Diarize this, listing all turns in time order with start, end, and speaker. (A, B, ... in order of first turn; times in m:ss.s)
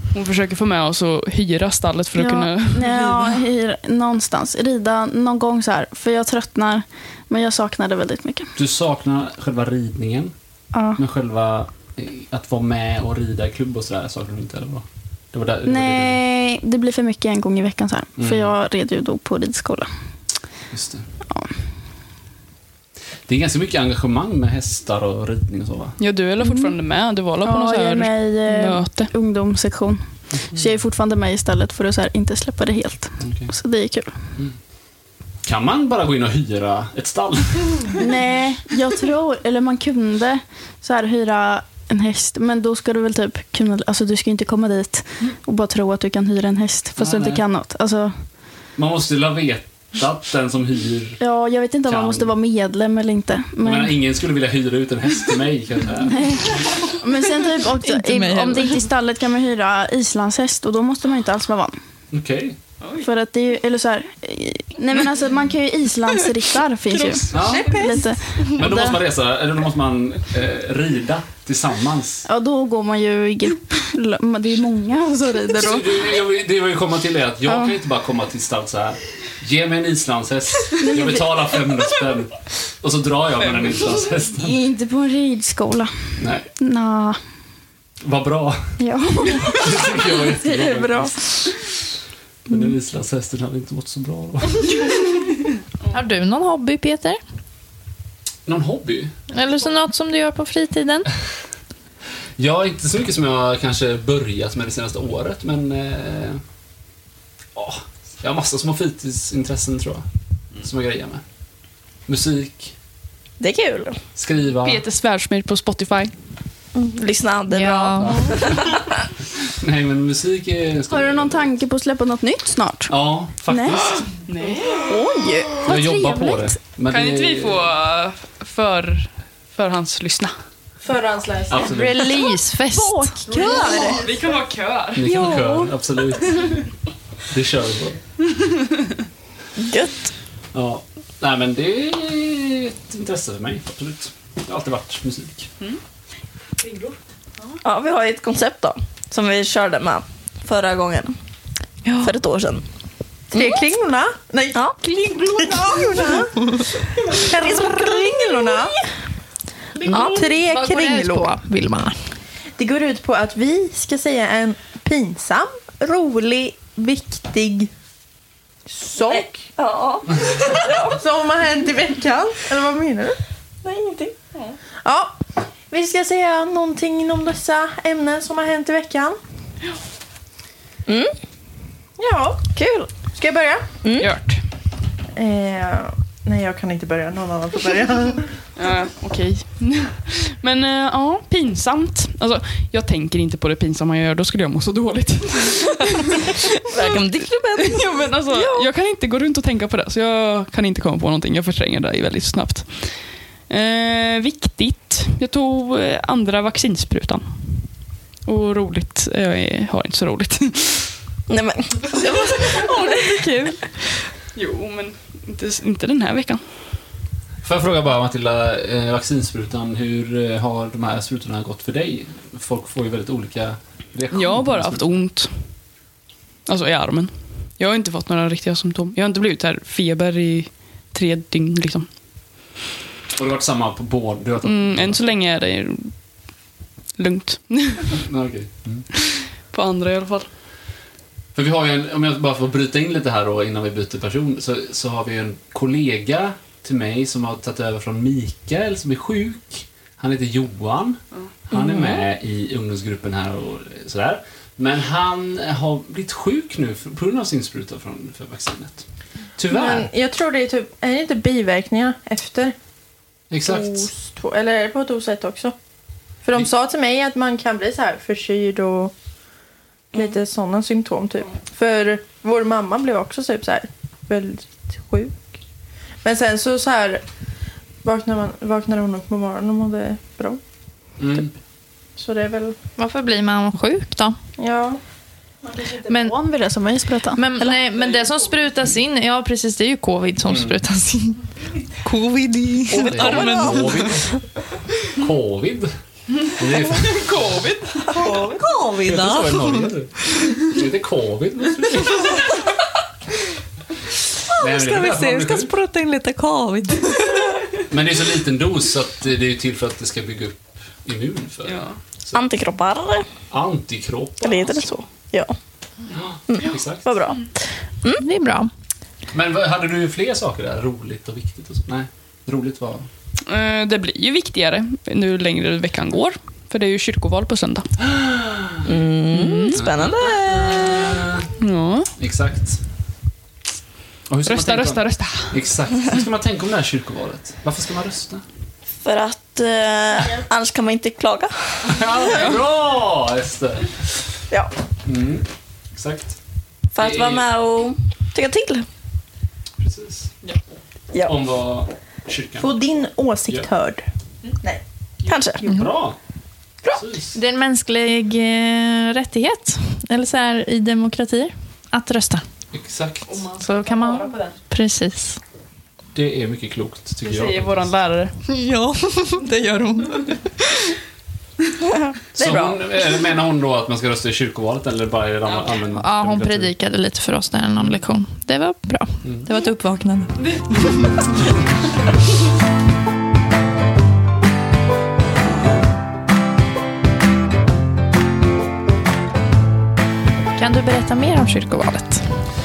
0:00.1-0:03.4 A
0:02.1-0:08.5 B
0:08.6-0:10.3 C
0:10.7-0:11.0 B
0:11.0-0:16.2 C
0:15.6-0:19.9 B
0:18.2-0:18.5 C
0:20.7-0:21.1 C
0:23.3-0:26.0 C
0:26.0-0:29.1 A
0:26.4-0:26.8 B
0:27.4-0:34.1 B
0:30.3-0:30.7 C
0:33.2-0:33.5 C
0:35.4-0:37.9 C
0:37.9-0:48.1 B
0:47.0-0:47.4 C
0:48.8-0:51.2 C
0:51.2-0:54.0 B
0:51.9-0:52.3 C
0:53.6-0:56.2 C
0:56.1-1:01.8 B
0:57.8-0:58.8 D
1:02.1-1:02.6 C
1:02.8-1:03.1 A
1:03.0-1:09.0 B
1:06.9-1:08.0 A
1:07.3-1:07.7 C
1:07.4-1:07.9 E
1:08.5-1:12.2 C
1:12.2-1:16.1 B
1:15.6-1:24.5 C
1:17.4-1:17.7 B
1:20.8-1:21.4 B
1:24.3-1:25.9 B
1:26.2-1:26.5 C
1:26.6-1:27.2 B
1:28.0-1:28.7 C
1:28.8-1:31.5 B
1:29.5-1:31.1 C
1:32.5-1:34.8 C
1:35.9-1:37.2 D
1:38.4-1:39.1 C
1:39.3-1:41.1 D
1:42.4-1:46.4 C
1:47.6-1:50.0 C
1:50.6-1:51.2 C
1:52.1-1:52.7 C
1:53.4-1:54.0 F
1:54.2-1:54.8 C
1:54.6-1:56.1 A
1:56.7-1:58.8 F
1:57.5-1:58.3 D
1:58.0-1:58.7 C
1:59.6-2:01.6 C
2:00.9-2:02.9 B
2:02.9-2:04.0 C
2:03.4-2:03.9 B
2:04.3-2:04.8 A
2:04.9-2:05.5 F
2:04.9-2:06.5 B
2:05.6-2:07.7 C
2:06.9-2:10.3 A
2:10.8-2:11.7 E
2:11.5-2:12.1 C
2:11.6-2:13.3 D
2:12.7-2:14.1 B
2:13.3-2:14.0 E
2:13.4-2:15.2 A
2:14.9-2:16.5 C
2:15.3-2:15.6 B
2:17.3-2:18.0 C
2:19.6-2:20.1 F
2:20.5-2:25.5 C
2:26.6-2:26.9 A
2:27.6-2:31.2 F
2:31.8-2:32.1 D
2:32.0-2:32.6 F
2:33.3-2:36.4 E
2:33.3-2:33.6 F
2:37.1-2:38.7 E
2:37.5-2:38.7 F
2:39.8-2:41.3 E
2:39.8-2:40.3 F
2:39.9-2:42.0 D
2:42.6-2:47.7 E
2:48.6-2:49.4 E
2:49.0-2:51.0 F
2:50.8-2:53.2 E
2:53.6-2:54.2 F
2:54.8-2:55.2 E
2:55.7-2:59.2 E
3:00.8-3:01.1 F
3:02.0-3:02.4 E
3:02.5-3:02.9 F
3:03.2-3:03.6 E
3:03.8-3:04.1 F
3:04.0-3:04.4 A
3:05.2-3:08.3 E
3:08.6-3:17.0 A
3:16.7-3:18.7 F
3:17.6-3:27.7 A
3:28.2-3:30.9 A
3:31.3-3:33.3 F
3:32.0-3:36.4 A
3:37.4-3:44.8 C
3:44.1-3:45.5 A
3:46.4-3:51.9 A
3:53.2-3:55.0 C
3:54.4-3:56.0 A
3:57.0-3:58.0 A
3:57.9-3:58.8 C
3:59.5-4:00.3 A
4:01.3-4:18.8 C
4:11.6-4:12.0 F
4:19.4-4:19.9 C
4:19.5-4:22.5 E
4:23.3-4:23.9 C
4:23.4-4:25.5 E
4:26.2-4:28.9 E
4:29.9-4:35.2 E
4:36.0-4:37.0 E
4:37.8-4:40.4 E
4:41.0-4:41.3 C
4:42.0-4:42.6 E
4:42.8-4:44.2 D
4:44.4-4:44.8 E
4:45.8-4:47.2 B
4:45.8-4:46.2 D
4:47.2-4:51.2 D
4:50.3-4:50.6 C
4:51.8-4:53.5 D
4:52.7-4:54.1 C
4:52.8-4:53.7 F
4:54.9-4:55.7 C
4:56.2-4:57.0 C
4:56.7-4:58.0 A
4:58.0-4:58.3 E
4:58.1-4:58.8 B
4:58.6-4:59.7 D
4:58.8-5:02.2 C
5:04.4-5:05.6 C
5:04.6-5:06.8 D
5:07.7-5:12.2 C
5:11.4-5:11.8 A
5:12.1-5:13.1 F
5:13.3-5:14.7 C
5:14.2-5:15.3 F
5:15.9-5:16.9 C
5:16.3-5:17.3 F
5:18.0-5:18.5 D
5:19.1-5:22.9 C
5:23.2-5:27.7 A
5:27.8-5:28.7 C
5:28.6-5:31.0 F
5:29.1-5:29.6 A
5:29.5-5:31.3 C
5:31.4-5:31.9 A
5:32.0-5:32.6 C
5:34.1-5:38.2 C
5:34.2-5:35.4 A
5:38.8-5:42.0 F
5:41.6-5:43.8 C
5:44.8-5:46.1 C
5:46.7-5:48.7 F
5:46.8-5:47.3 C
5:49.6-5:50.1 C
5:51.0-5:52.6 C
5:52.4-5:53.8 E
5:55.0-5:55.4 F
5:55.4-5:55.7 D
5:55.5-5:56.0 C
5:56.7-5:57.2 C
5:57.1-6:02.2 D
6:02.5-6:03.2 C
6:03.1-6:04.4 A
6:03.4-6:05.2 D
6:05.9-6:07.7 C
6:07.0-6:08.1 A
6:08.3-6:10.2 D
6:11.6-6:12.6 F
6:12.2-6:16.5 C
6:15.7-6:21.0 D
6:20.2-6:20.8 A
6:30.4-6:32.0 D